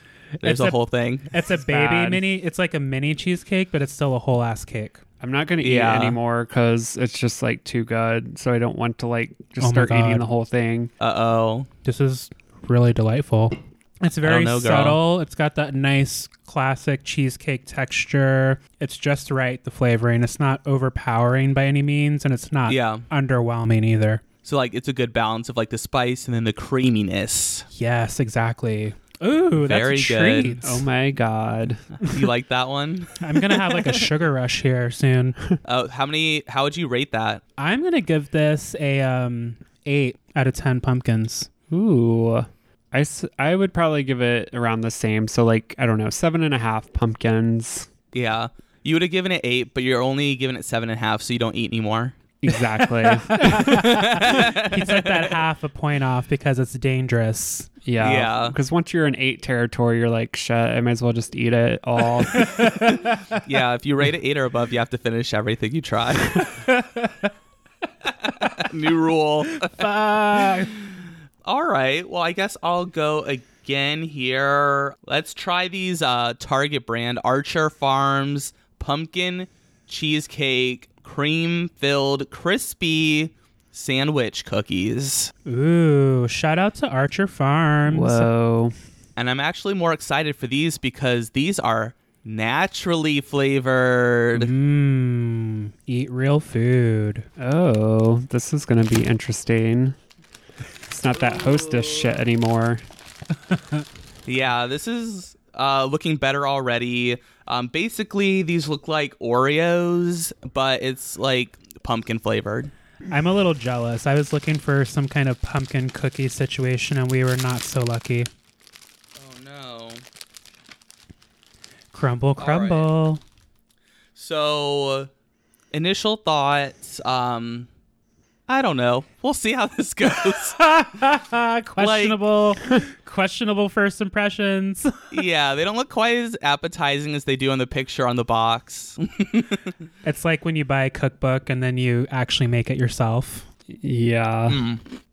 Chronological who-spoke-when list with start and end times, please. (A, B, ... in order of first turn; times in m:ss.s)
0:00.4-0:00.8 A
0:00.4-0:01.3 B
0:01.3-0:05.0 A
0:01.5-0:02.2 C
0:05.2-0:10.9 C
0:05.6-0:06.2 B
0:09.6-0:10.2 A
0:11.0-0:11.7 B
0:11.8-0:24.2 A
0:14.2-0:15.0 B
0:22.7-0:23.0 B
0:24.4-0:27.7 B
0:27.7-0:30.8 A
0:29.6-0:30.6 B
0:30.6-0:32.3 C
0:32.0-0:34.0 B
0:33.2-0:35.4 A
0:35.6-0:37.4 B
0:37.6-0:41.5 A
0:41.7-0:47.9 C
0:48.1-0:52.2 B
0:52.4-0:54.1 C
0:53.3-0:57.7 A
0:53.5-0:55.4 B
0:57.8-1:02.6 C
0:58.0-0:58.6 B
1:02.3-1:03.4 A
1:02.8-1:06.7 B
1:06.7-1:07.3 A
1:08.0-1:09.9 B
1:09.5-1:10.7 A
1:10.6-1:25.3 B
1:25.4-1:28.3 A
1:27.9-1:28.7 C
1:29.2-1:34.5 B
1:34.3-1:37.3 A
1:37.4-1:40.0 C
1:40.9-1:42.8 C
1:41.1-1:42.2 B
1:43.5-1:43.8 A
1:44.2-1:52.7 B
1:53.1-1:58.3 A
1:59.2-2:00.0 B
2:01.9-2:03.2 A
2:02.4-2:02.9 B
2:04.1-2:05.1 B
2:05.7-2:07.7 B
2:08.5-2:10.6 B
2:10.2-2:15.1 A
2:11.8-2:12.2 B
2:15.1-2:19.7 B
2:20.0-2:23.5 A
2:23.7-2:24.6 C
2:24.5-2:24.8 B